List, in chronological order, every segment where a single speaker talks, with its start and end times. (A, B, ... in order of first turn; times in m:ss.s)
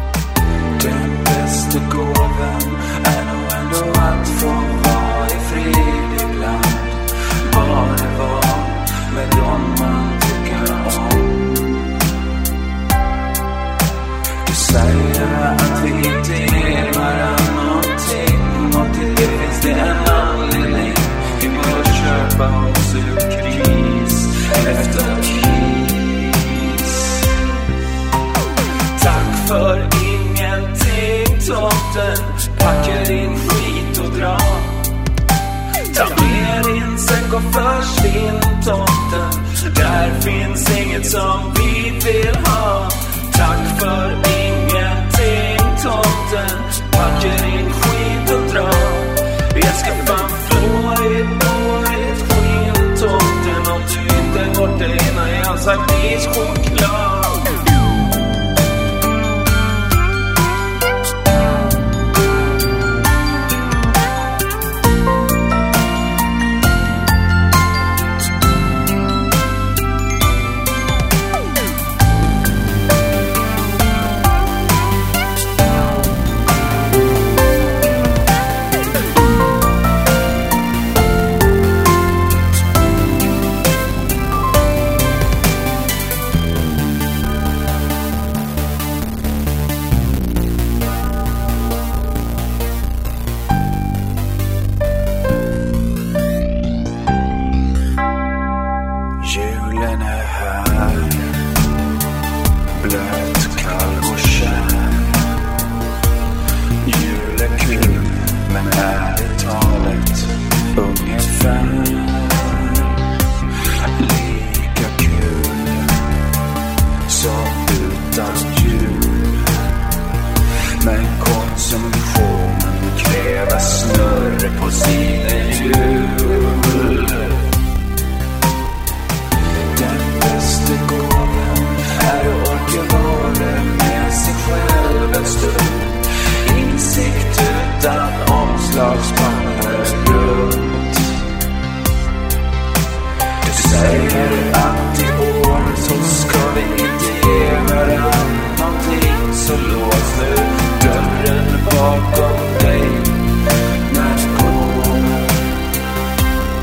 0:00.8-0:12.0 A
0:14.4-0:27.3 A
0:28.9-0:35.0 A
0:35.9-0:57.7 A
1:39.2-1:41.3 A
1:42.7-1:45.4 A
1:46.8-1:53.0 A
1:54.0-1:56.1 A
1:57.1-1:59.7 A
2:00.8-2:07.5 A
2:09.7-2:21.2 A
2:23.4-2:33.3 A
2:33.8-2:35.6 A